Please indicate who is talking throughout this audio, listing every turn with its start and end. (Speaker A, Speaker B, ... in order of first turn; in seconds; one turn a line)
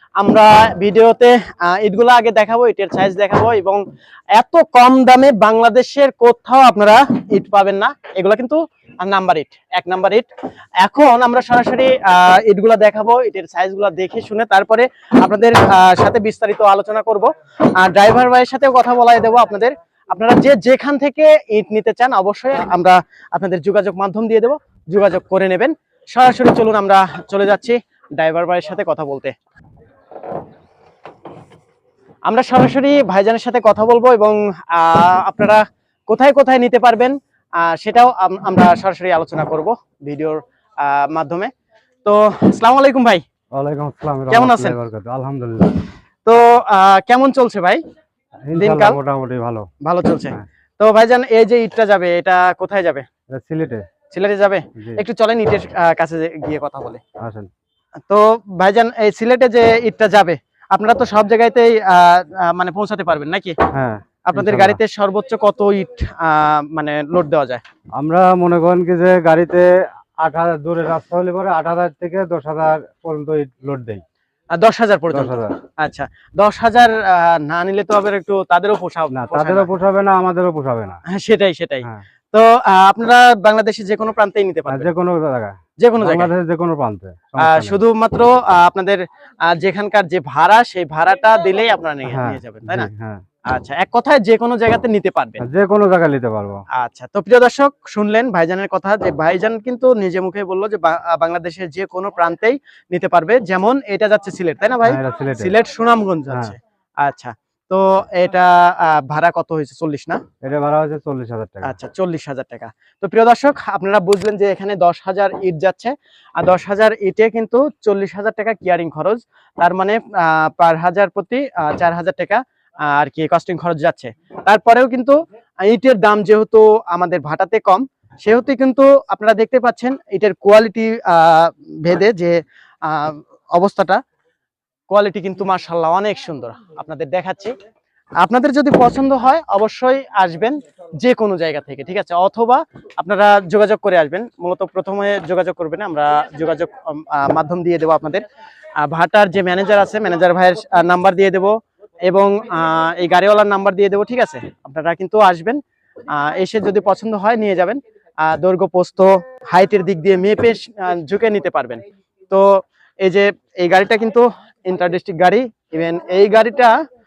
Speaker A: 0.2-3.8
Speaker A: 4.4-10.3
Speaker A: 10.8-29.3
Speaker A: 32.3-41.5
Speaker A: 42.0-43.2
Speaker B: 43.5-45.8
Speaker A: 44.3-44.8
Speaker A: 46.2-47.8
Speaker B: 48.5-49.7
Speaker A: 48.5-49.0
Speaker A: 49.8-53.1
Speaker B: 53.3-53.9
Speaker A: 54.1-57.0
Speaker B: 57.2-57.5
Speaker A: 58.1-63.5
Speaker B: 63.7-64.8
Speaker A: 64.3-67.6
Speaker B: 68.0-69.7
Speaker B: 70.2-74.0
Speaker A: 74.5-79.7
Speaker B: 75.1-75.5
Speaker B: 79.1-81.0
Speaker A: 81.1-84.9
Speaker B: 84.7-87.8
Speaker A: 85.8-86.3
Speaker A: 87.4-92.9
Speaker B: 92.1-93.2
Speaker A: 93.5-95.4
Speaker B: 95.4-96.6
Speaker A: 96.7-110.2
Speaker B: 104.8-105.5
Speaker B: 110.4-111.8
Speaker A: 111.6-134.0
Speaker A: 134.9-137.5
Speaker A: 138.2-148.2
Speaker A: 148.8-155.6
Speaker A: 156.1-166.7